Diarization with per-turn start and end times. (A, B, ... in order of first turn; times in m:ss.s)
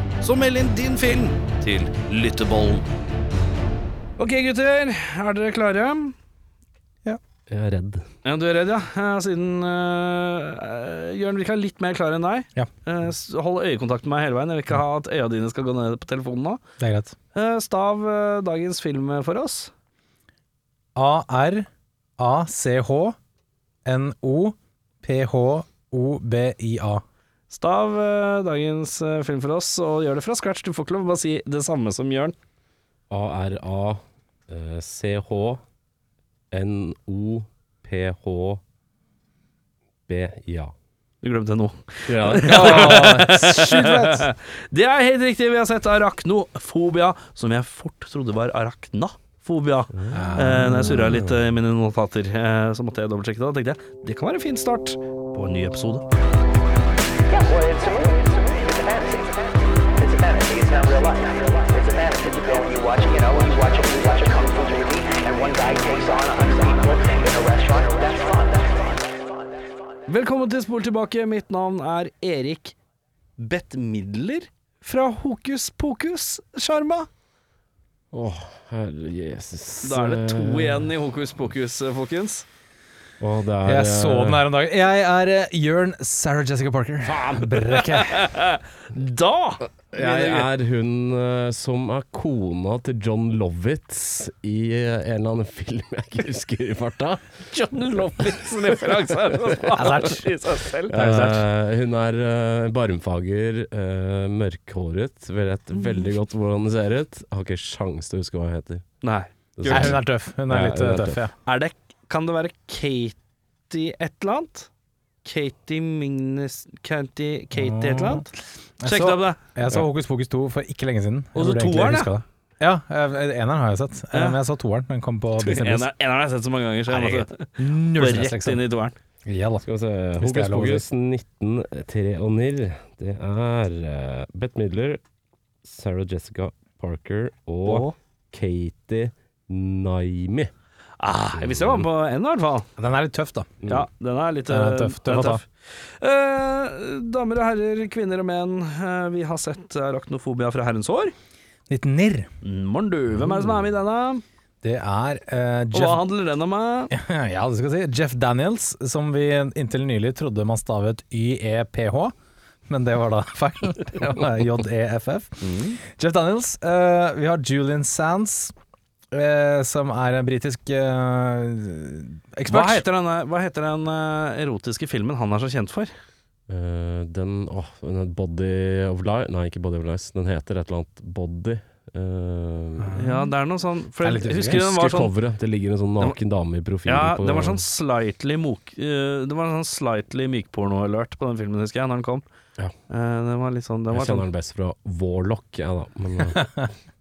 0:00.2-0:02.8 A
0:04.2-0:06.2 A
0:07.5-0:08.1 B
0:08.2-0:16.6 A
0:16.8-0:17.2 C
0:17.3-0:19.7 A
0:21.0-0:23.2 C
0:23.8-0:27.0 C
0:27.5-0:32.4 A
0:33.1-0:35.6 B
0:36.5-0:38.6 B
0:40.1-0:40.7 B
0:41.2-0:56.1 A
0:42.1-0:43.1 B
0:42.5-0:44.3 C
0:50.0-0:51.3 B
0:50.1-0:50.9 C
0:57.3-1:09.2 D
1:10.1-1:12.8 A
1:13.4-1:17.1 A
1:18.1-1:20.9 B
1:19.8-1:22.4 A
1:23.2-1:24.4 B
1:23.6-1:28.3 C
1:27.0-1:27.6 B
1:27.7-1:30.5 A
1:29.9-1:37.2 B
1:37.5-1:41.0 A
1:39.7-1:40.3 C
1:40.9-1:48.8 B
1:40.9-1:41.4 C
1:49.0-1:50.0 A
1:49.6-1:51.2 B
1:49.7-1:51.3 C
1:51.4-1:53.2 A
1:53.7-1:54.7 A
1:55.2-1:58.3 A
1:57.5-2:05.9 C
1:58.8-1:59.4 A
2:01.4-2:02.1 A
2:05.4-2:09.0 A
2:06.9-2:08.6 C
2:09.2-2:09.6 C
2:09.6-2:15.0 B
2:10.2-2:10.9 C
2:15.6-2:20.5 B
2:17.6-2:18.0 A
2:21.0-2:22.7 A
2:21.4-2:21.9 B
2:22.8-2:23.6 C
2:23.7-2:31.1 A
2:24.5-2:25.4 C
2:31.7-2:32.3 C
2:32.4-2:34.2 A
2:33.2-2:33.6 B
2:34.6-2:36.0 C
2:35.7-2:36.9 A
2:36.9-2:42.1 C
2:42.7-2:48.5 C
2:45.4-2:45.8 A
2:49.1-2:52.8 C
2:52.5-2:55.9 A
2:56.5-3:03.0 B
3:02.8-3:03.3 C
3:03.0-3:05.1 A
3:04.0-3:04.6 C
3:04.4-3:07.6 B
3:06.9-3:12.2 A
3:12.9-3:14.2 A
3:13.9-3:16.5 B
3:16.4-3:16.6 C